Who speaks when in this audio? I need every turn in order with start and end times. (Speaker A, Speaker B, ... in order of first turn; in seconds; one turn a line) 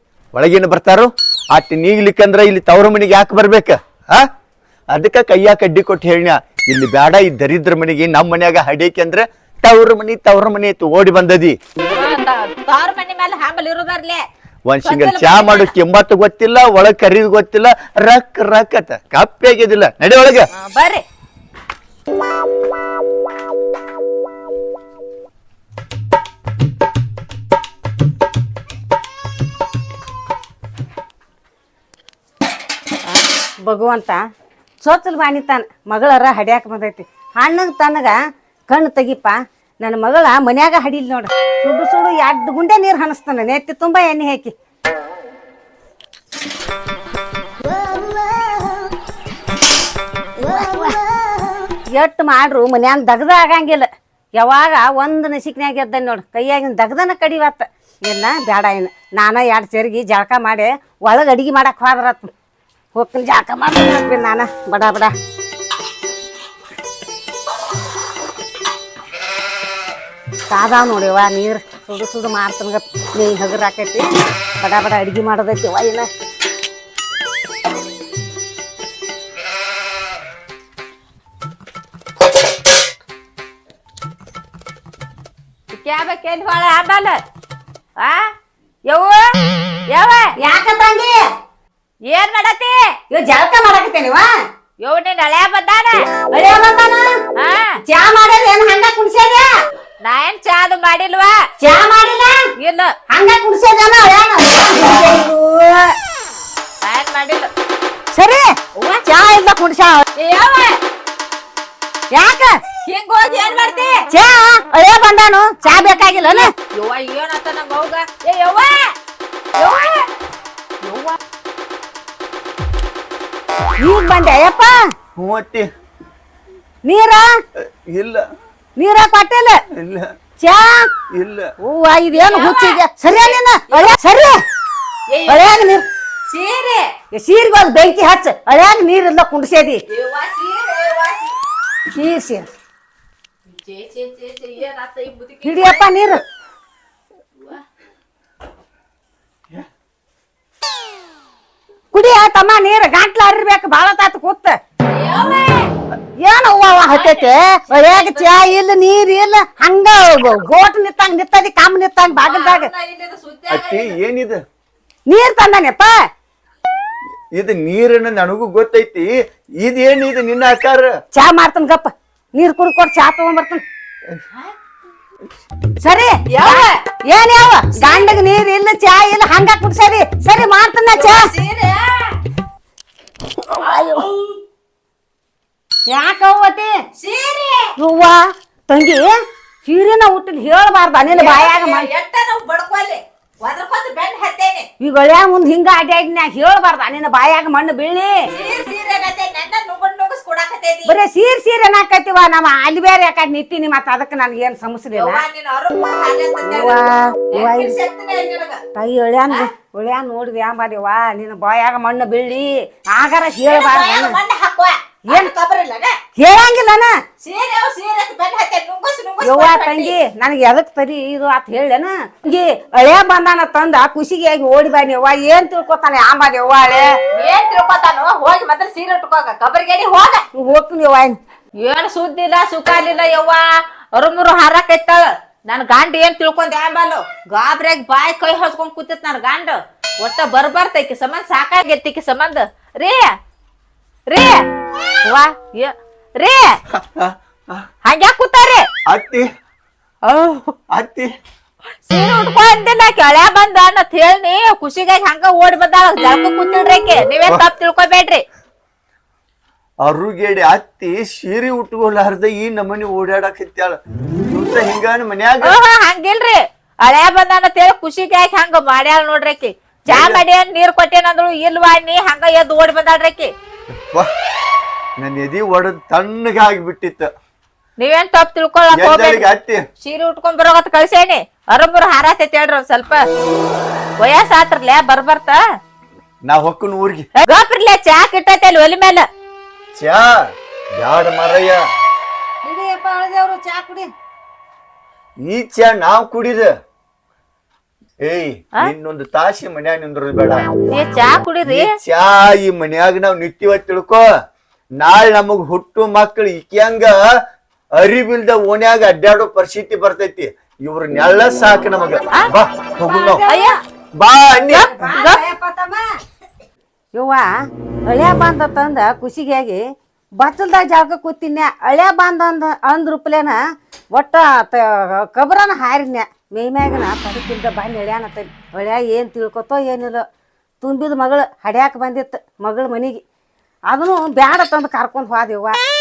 Speaker A: 0.3-4.3
Speaker A: 4.9-11.6
Speaker B: 11.8-14.2
Speaker A: 14.7-20.5
Speaker B: 14.8-15.7
Speaker B: 20.5-21.0
Speaker C: 33.6-34.2
Speaker C: 34.8-38.2
Speaker C: 38.7-44.5
Speaker C: 47.7-48.5
Speaker C: 50.4-51.0
Speaker C: 51.9-53.9
Speaker C: 54.4-62.3
Speaker C: 62.9-65.1
Speaker C: 70.5-74.0
Speaker C: 74.6-76.1
Speaker B: 85.7-87.2
Speaker B: 88.0-88.3
Speaker B: 88.9-89.2
Speaker B: 89.9-90.3
Speaker C: 90.4-91.2
Speaker B: 92.1-93.0
Speaker C: 93.1-94.3
Speaker B: 94.8-96.0
Speaker C: 96.3-97.1
Speaker B: 97.4-97.8
Speaker C: 97.8-99.5
Speaker B: 100.0-101.3
Speaker C: 101.6-102.4
Speaker B: 102.6-102.9
Speaker C: 103.1-105.9
Speaker B: 106.8-107.5
Speaker C: 108.1-108.5
Speaker B: 108.8-109.0
Speaker C: 109.0-110.0
Speaker B: 110.2-110.8
Speaker C: 112.1-112.6
Speaker B: 112.8-114.0
Speaker C: 114.1-116.5
Speaker B: 115.7-118.9
Speaker B: 119.5-120.1
Speaker B: 120.8-121.2
Speaker C: 123.8-124.7
Speaker A: 125.2-125.7
Speaker C: 126.8-127.2
Speaker A: 127.9-128.2
Speaker C: 128.8-129.6
Speaker A: 129.8-130.1
Speaker C: 130.4-130.9
Speaker A: 131.1-131.5
Speaker C: 131.6-134.4
Speaker B: 132.1-134.0
Speaker B: 135.1-135.5
Speaker C: 135.3-135.8
Speaker B: 136.3-136.9
Speaker C: 137.1-139.8
Speaker B: 139.9-141.3
Speaker C: 141.9-142.5
Speaker B: 143.5-146.1
Speaker C: 145.4-146.2
Speaker C: 151.9-154.6
Speaker B: 154.9-155.7
Speaker C: 156.2-162.7
Speaker B: 156.9-158.5
Speaker B: 162.2-163.9
Speaker A: 163.5-164.4
Speaker C: 165.1-165.9
Speaker A: 167.3-170.9
Speaker C: 171.1-173.6
Speaker C: 175.8-181.3
Speaker B: 176.3-176.8
Speaker B: 177.7-178.1
Speaker B: 180.9-182.2
Speaker B: 183.6-184.3
Speaker C: 185.9-186.7
Speaker B: 186.9-187.7
Speaker C: 187.8-189.1
Speaker C: 189.6-191.9
Speaker B: 191.1-194.7
Speaker C: 194.8-198.2
Speaker B: 198.3-201.0
Speaker C: 200.8-205.2
Speaker B: 204.9-208.6
Speaker C: 206.4-207.8
Speaker C: 208.7-214.2
Speaker B: 213.5-215.9
Speaker C: 216.2-216.9
Speaker B: 217.2-219.9
Speaker C: 219.2-226.9
Speaker B: 227.1-230.2
Speaker C: 230.3-231.2
Speaker B: 231.6-243.1
Speaker B: 244.1-244.4
Speaker B: 245.1-246.6
Speaker A: 246.7-247.6
Speaker B: 247.8-248.7
Speaker A: 248.9-249.3
Speaker B: 250.0-250.5
Speaker A: 250.7-251.1
Speaker B: 251.9-258.2
Speaker A: 259.8-265.5
Speaker B: 265.4-273.3
Speaker A: 269.9-270.2
Speaker A: 275.0-277.1
Speaker B: 277.8-279.2
Speaker A: 278.7-279.6
Speaker B: 279.8-283.1
Speaker B: 284.0-285.4
Speaker A: 286.2-287.1
Speaker B: 287.2-289.1
Speaker A: 289.7-290.2
Speaker A: 290.8-291.6
Speaker C: 292.4-293.9
Speaker A: 295.2-296.5
Speaker A: 298.0-300.4
Speaker B: 300.7-301.7
Speaker A: 301.5-304.0
Speaker A: 304.8-307.0
Speaker A: 307.8-313.2
Speaker C: 312.8-313.5
Speaker B: 313.2-313.6
Speaker A: 314.0-314.7
Speaker B: 314.5-315.2
Speaker C: 314.6-315.9
Speaker C: 316.9-317.3
Speaker C: 317.9-319.6
Speaker C: 320.2-323.4
Speaker C: 323.9-330.0
Speaker C: 330.6-333.0
Speaker C: 333.7-335.6